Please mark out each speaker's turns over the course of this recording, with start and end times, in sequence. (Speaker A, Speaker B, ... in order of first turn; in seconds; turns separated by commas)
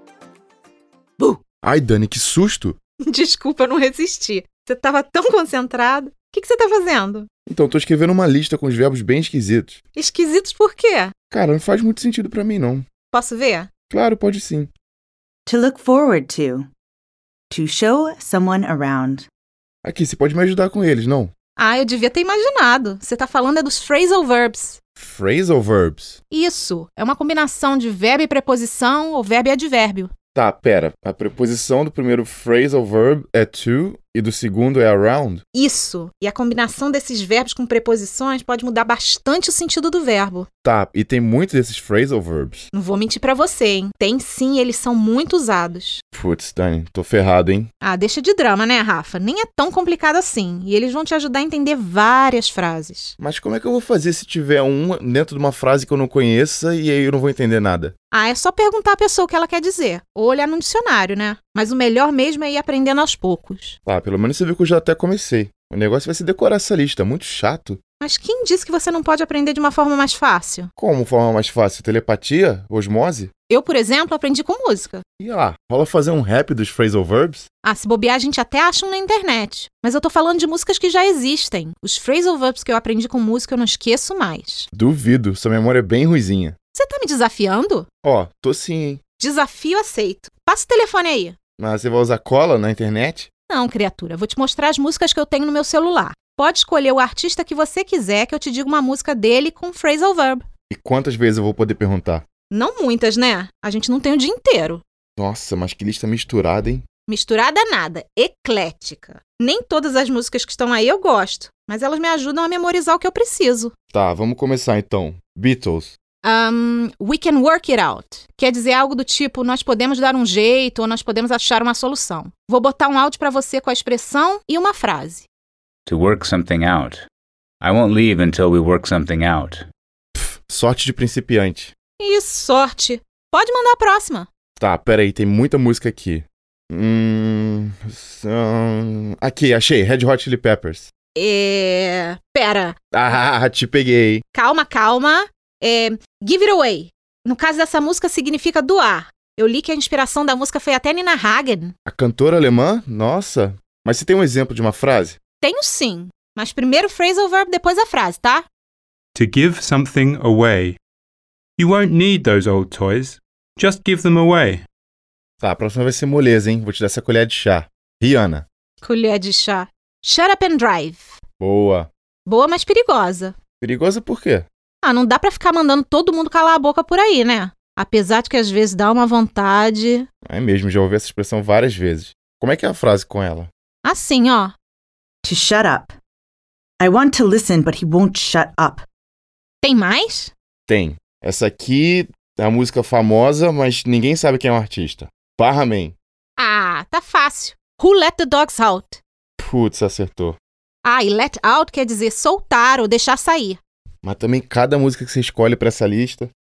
Speaker A: 1.6-2.8, Speaker B: 3.1-7.3, Speaker A: 7.5-9.8, Speaker B: 10.0-11.1, Speaker A: 11.3-12.9, Speaker B: 13.1-13.7, Speaker A: 13.9-14.7, Speaker C: 15.5-16.7, Speaker C: 17.5-19.3, Speaker A: 19.8-21.3, Speaker B: 21.6-24.8, Speaker A: 25.0-26.2, Speaker B: 26.3-30.1, Speaker A: 30.4-35.4, Speaker B: 35.5-40.5, Speaker A: 40.6-42.7, Speaker B: 42.7-46.0, Speaker A: 46.1-47.7, Speaker B: 47.8-53.1, Speaker A: 53.2-57.9, Speaker B: 58.1-63.8, Speaker A: 63.9-67.8, Speaker B: 68.0-70.7, Speaker A: 70.8-73.3, Speaker B: 73.5-75.0, Speaker A: 75.2-77.5, Speaker B: 77.6-84.7, Speaker A: 84.7-86.5, Speaker B: 86.8-87.9, Speaker A: 88.0-89.0, Speaker B: 89.2-91.3, Speaker A: 91.6-93.3, Speaker B: 93.5-100.4, Speaker A: 100.7-102.2, Speaker B: 102.5-104.8, Speaker A: 105.2-106.8, Speaker B: 107.1-113.7, Speaker A: 113.9-116.0, Speaker B: 116.2-125.3, Speaker D: 125.9-127.0, Speaker D: 127.6-129.7, Speaker A: 130.2-131.7, Speaker B: 132.0-134.3, Speaker A: 134.6-140.9, Speaker B: 141.2-142.8, Speaker A: 142.9-144.2, Speaker B: 144.3-151.7, Speaker A: 151.9-155.2, Speaker B: 155.4-158.5, Speaker E: 159.2-160.8, Speaker E: 161.6-164.7, Speaker A: 165.4-168.5, Speaker B: 168.8-171.2, Speaker A: 171.4-171.9, Speaker B: 172.3-173.3, Speaker A: 173.6-174.5, Speaker B: 174.8-180.1, Speaker A: 180.3-183.5, Speaker B: 183.8-184.6, Speaker C: 185.2-185.9, Speaker C: 186.8-188.8, Speaker B: 189.6-190.3, Speaker A: 190.7-196.0, Speaker B: 196.4-199.0, Speaker A: 199.4-200.4, Speaker B: 200.8-203.6, Speaker A: 204.0-206.3